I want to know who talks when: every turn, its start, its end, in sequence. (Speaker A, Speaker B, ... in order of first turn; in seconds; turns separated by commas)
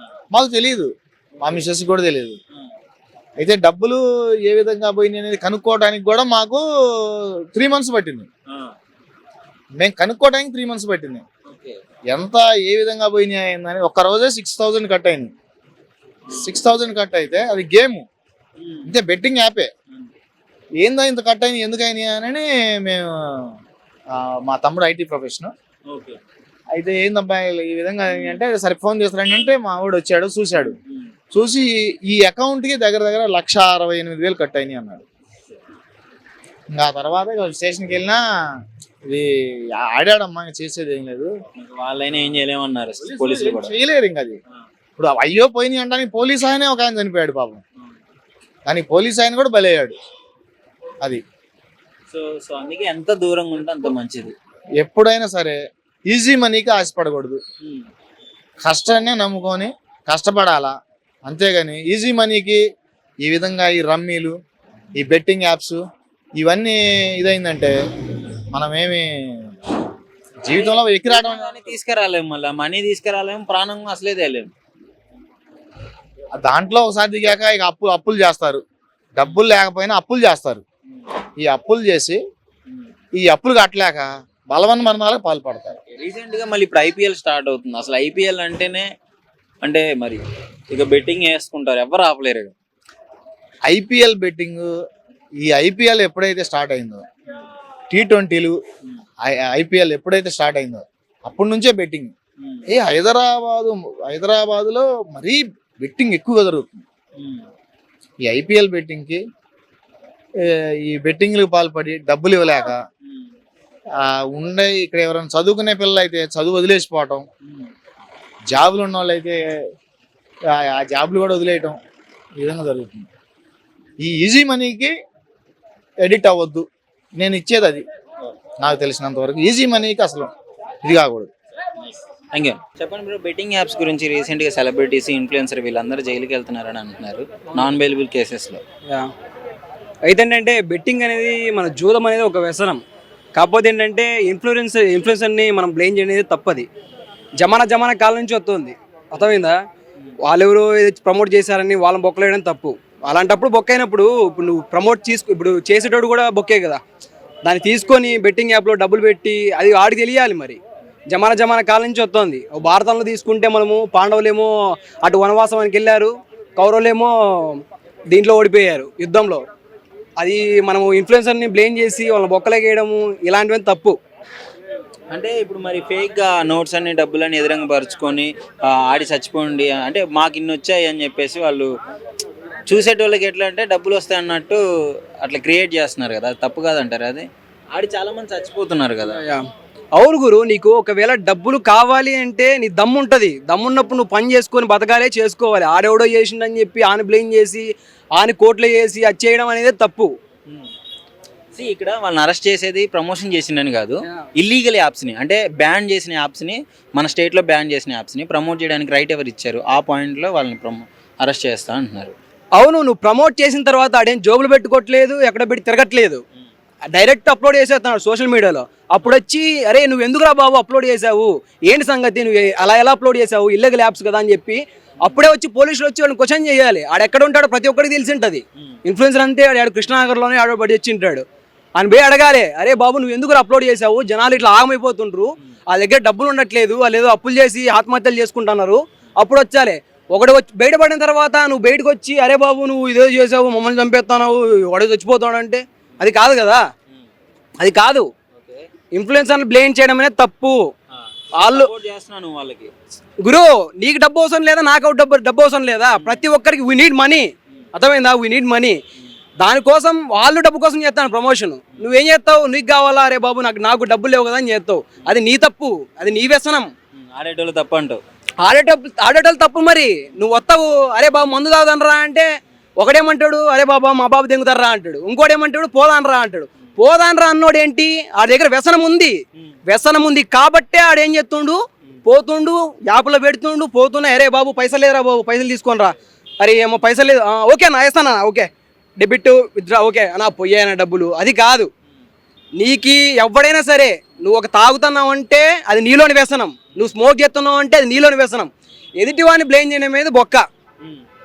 Speaker A: 0.3-2.4, Speaker A: 3.4-8.3, Speaker A: 9.8-11.2, Speaker B: 11.4-11.8, Speaker A: 12.1-15.3, Speaker B: 16.3-16.5, Speaker A: 16.4-18.1, Speaker B: 18.6-18.9, Speaker A: 18.9-19.7, Speaker A: 20.8-23.5, Speaker A: 24.1-25.5, Speaker B: 25.9-26.2, Speaker A: 26.7-30.8, Speaker B: 28.1-28.4, Speaker B: 30.5-31.1, Speaker A: 31.3-35.0, Speaker A: 36.7-38.2, Speaker A: 39.0-41.3, Speaker B: 41.5-43.7, Speaker A: 43.0-44.4, Speaker A: 45.0-47.6, Speaker A: 48.6-50.0, Speaker B: 52.1-54.3, Speaker A: 54.8-55.6, Speaker A: 56.1-57.4, Speaker B: 57.6-57.9, Speaker A: 58.6-60.7, Speaker A: 61.3-62.6, Speaker A: 63.2-64.3, Speaker A: 64.9-65.8, Speaker A: 66.4-67.7, Speaker A: 68.5-69.5, Speaker A: 70.4-71.7, Speaker B: 70.5-74.5, Speaker A: 76.4-78.6, Speaker A: 79.1-80.6, Speaker A: 81.4-82.2, Speaker A: 83.2-85.8, Speaker B: 85.9-88.9, Speaker B: 89.6-92.5, Speaker A: 93.7-94.7, Speaker A: 95.4-97.1, Speaker A: 97.9-98.6, Speaker A: 99.2-102.1, Speaker A: 102.7-106.8, Speaker B: 107.2-107.5, Speaker A: 108.3-109.2, Speaker A: 110.4-112.8, Speaker A: 114.0-117.2, Speaker B: 117.4-117.7, Speaker A: 118.5-119.4, Speaker A: 120.5-121.8, Speaker A: 122.4-123.1, Speaker A: 124.0-124.9, Speaker A: 126.0-126.6, Speaker A: 127.2-127.8, Speaker A: 128.6-130.3, Speaker A: 130.8-131.3, Speaker B: 132.3-138.6, Speaker C: 140.1-142.8, Speaker C: 143.3-146.7, Speaker C: 147.4-149.6, Speaker C: 150.2-156.8, Speaker C: 157.4-160.6, Speaker C: 161.1-167.6, Speaker C: 168.1-169.4, Speaker C: 170.2-174.0, Speaker B: 175.1-181.7, Speaker B: 182.7-184.6, Speaker B: 185.2-189.2, Speaker C: 189.2-200.1, Speaker B: 201.5-212.1, Speaker C: 212.6-216.2, Speaker C: 216.9-231.2, Speaker C: 231.8-246.6, Speaker C: 247.6-248.1, Speaker B: 248.3-248.7, Speaker C: 248.9-250.7, Speaker B: 250.9-252.7, Speaker C: 251.4-251.7, Speaker C: 253.2-258.8, Speaker C: 259.4-266.7, Speaker B: 266.9-268.0, Speaker C: 268.4-288.5, Speaker C: 289.0-291.7, Speaker C: 292.6-300.4